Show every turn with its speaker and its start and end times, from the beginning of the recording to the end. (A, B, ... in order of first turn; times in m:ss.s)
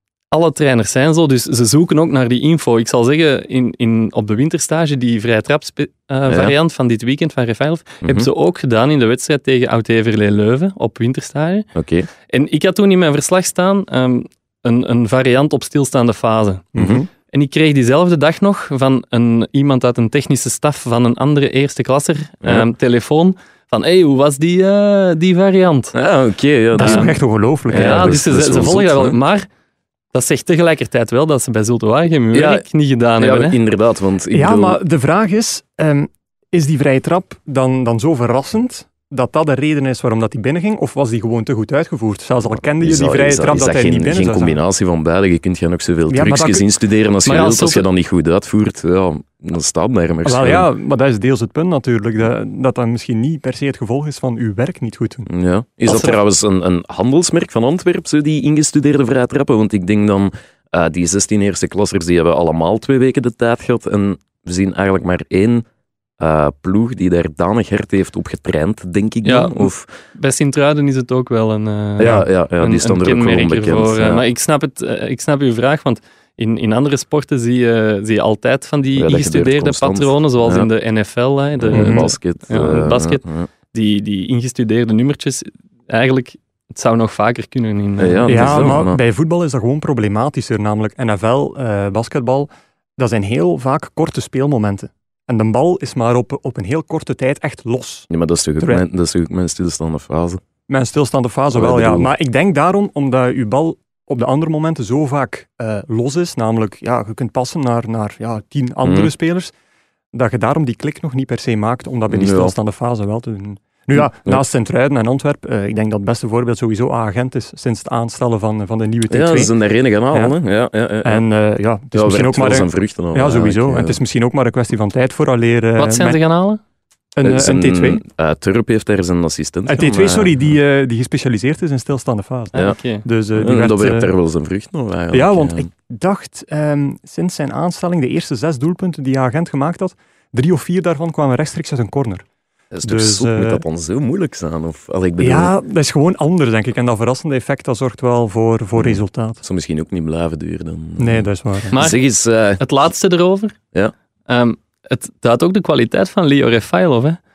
0:00.3-0:11.7 A
0:06.3-0:06.5 B
0:08.0-0:08.3 B
0:11.7-0:12.1 B
0:12.3-0:25.9 A
0:16.7-0:17.0 C
0:16.8-0:17.0 B
0:22.4-0:22.7 B
0:25.9-0:27.1 B
0:26.8-0:28.2 C
0:26.8-0:27.1 A
0:27.7-0:29.2 B
0:27.7-0:29.5 A
0:30.1-0:33.6 A
0:32.3-0:32.6 B
0:33.2-0:34.8 B
0:34.3-0:44.6 C
0:42.8-0:50.7 B
0:46.1-0:46.6 C
0:47.2-0:47.8 A
0:50.2-0:55.3 C
0:55.3-1:05.6 B
0:55.9-0:56.2 A
1:06.2-1:09.9 B
1:09.2-1:23.2 A
1:12.0-1:14.2 B
1:12.0-1:12.3 C
1:19.0-1:20.7 B
1:21.6-1:23.5 B
1:21.7-1:22.0 C
1:23.7-1:28.8 A
1:28.0-1:29.0 B
1:28.3-1:38.1 C
1:38.1-1:40.4 B
1:40.7-1:49.5 C
1:41.5-1:42.1 B
1:48.8-1:49.1 B
1:50.1-1:59.5 C
1:52.1-1:52.5 B
1:54.0-1:54.4 B
1:59.1-2:01.2 B
2:01.0-2:06.2 C
2:01.9-2:04.0 B
2:05.8-2:06.6 A
2:07.2-2:08.0 C
2:07.2-2:10.4 B
2:09.7-2:14.1 C
2:12.6-2:13.0 A
2:13.4-2:15.6 B
2:15.1-2:22.2 C
2:22.7-2:25.5 B
2:22.8-2:23.6 C
2:25.2-2:29.4 C
2:28.8-2:32.6 B
2:31.0-2:31.8 C
2:31.7-2:32.0 A
2:32.6-2:33.6 A
2:34.3-2:37.2 A